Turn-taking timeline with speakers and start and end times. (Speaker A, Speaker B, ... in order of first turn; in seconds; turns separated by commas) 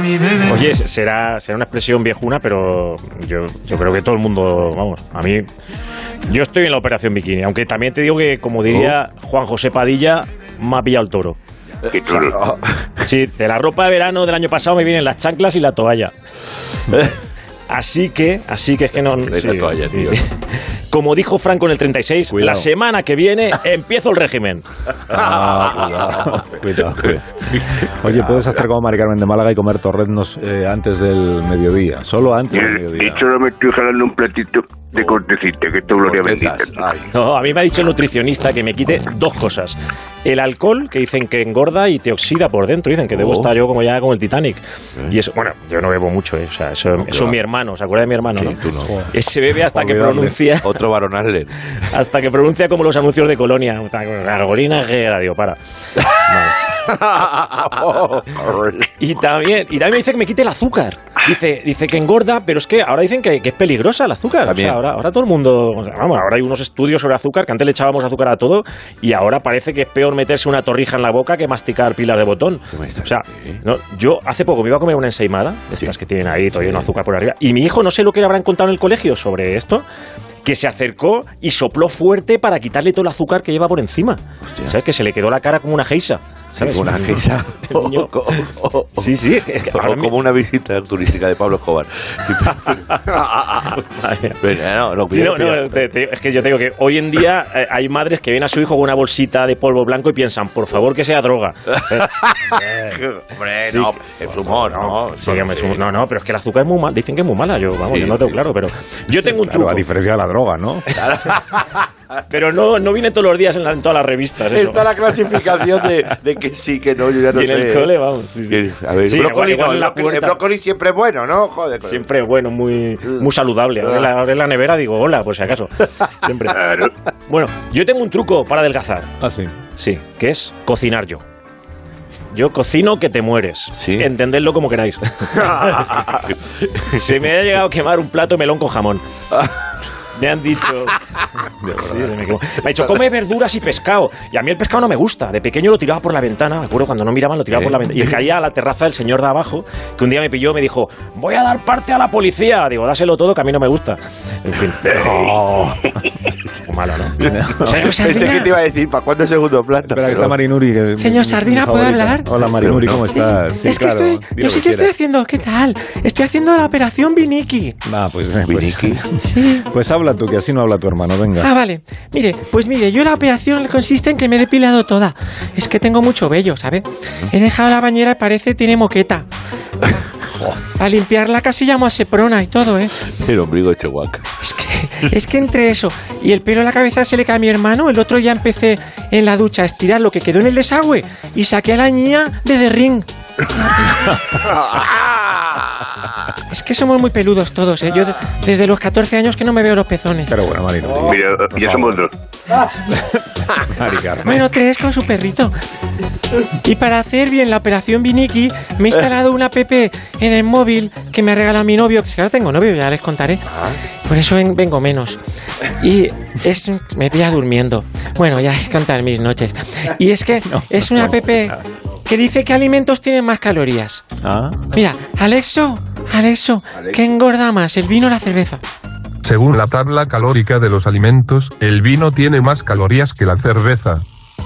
Speaker A: 0.4-5.5, Speaker A: 6.3-11.4, Speaker B: 11.9-12.4, Speaker C: 12.1-12.9, Speaker A: 13.0-16.1, Speaker A: 17.7-24.7, Speaker C: 19.1-20.2, Speaker D: 22.3-22.7, Speaker D: 25.1-27.2, Speaker C: 25.1-26.4, Speaker C: 27.0-28.6, Speaker D: 27.8-33.2, Speaker B: 32.5-36.8, Speaker C: 36.0-37.1, Speaker A: 37.1-50.8, Speaker C: 43.1-43.5, Speaker C: 47.1-47.4, Speaker C: 48.3-48.9, Speaker D: 49.7-50.4, Speaker C: 50.6-51.9, Speaker A: 51.8-56.6, Speaker C: 56.9-58.9, Speaker A: 59.0-79.8, Speaker C: 64.5-64.8, Speaker C: 72.7-73.6, Speaker C: 76.6-76.9, Speaker A: 80.5-90.2, Speaker C: 84.5-84.8, Speaker C: 86.5-89.2, Speaker C: 89.7-93.7, Speaker A: 93.0-94.4, Speaker C: 94.4-95.9, Speaker A: 95.1-103.0, Speaker C: 102.2-105.9, Speaker A: 103.6-109.8, Speaker C: 107.9-108.4, Speaker D: 109.4-111.0, Speaker C: 110.9-111.9, Speaker A: 112.3-115.0, Speaker C: 114.5-118.0, Speaker A: 117.3-120.4, Speaker C: 118.5-122.1, Speaker A: 121.8-129.1, Speaker B: 126.6-126.9, Speaker D: 129.2-129.5, Speaker A: 129.8-131.2, Speaker A: 132.3-136.2, Speaker C: 133.8-134.1, Speaker C: 136.1-137.0, Speaker A: 136.8-139.0, Speaker A: 140.2-141.0, Speaker D: 141.6-142.1, Speaker A: 141.7-155.2, Speaker D: 154.9-155.9, Speaker A: 156.7-157.7, Speaker C: 157.2-160.4, Speaker D: 157.2-157.8, Speaker E: 157.7-158.5, Speaker D: 159.9-164.9, Speaker E: 161.0-162.3, Speaker C: 162.5-163.1, Speaker E: 163.1-167.8, Speaker D: 167.8-171.5, Speaker C: 168.5-169.1, Speaker E: 169.3-169.7, Speaker E: 171.4-179.3, Speaker E: 180.7-182.9, Speaker C: 183.1-184.3, Speaker E: 184.4-193.1, Speaker E: 196.5-200.3, Speaker D: 200.3-202.1, Speaker B: 201.0-202.1, Speaker D: 202.9-204.5, Speaker E: 204.2-205.5, Speaker E: 206.6-213.4, Speaker C: 213.5-213.8, Speaker E: 214.0-224.1, Speaker D: 220.4-221.6, Speaker D: 224.2-224.7, Speaker E: 224.7-228.6, Speaker C: 226.8-227.0, Speaker F: 229.2-234.0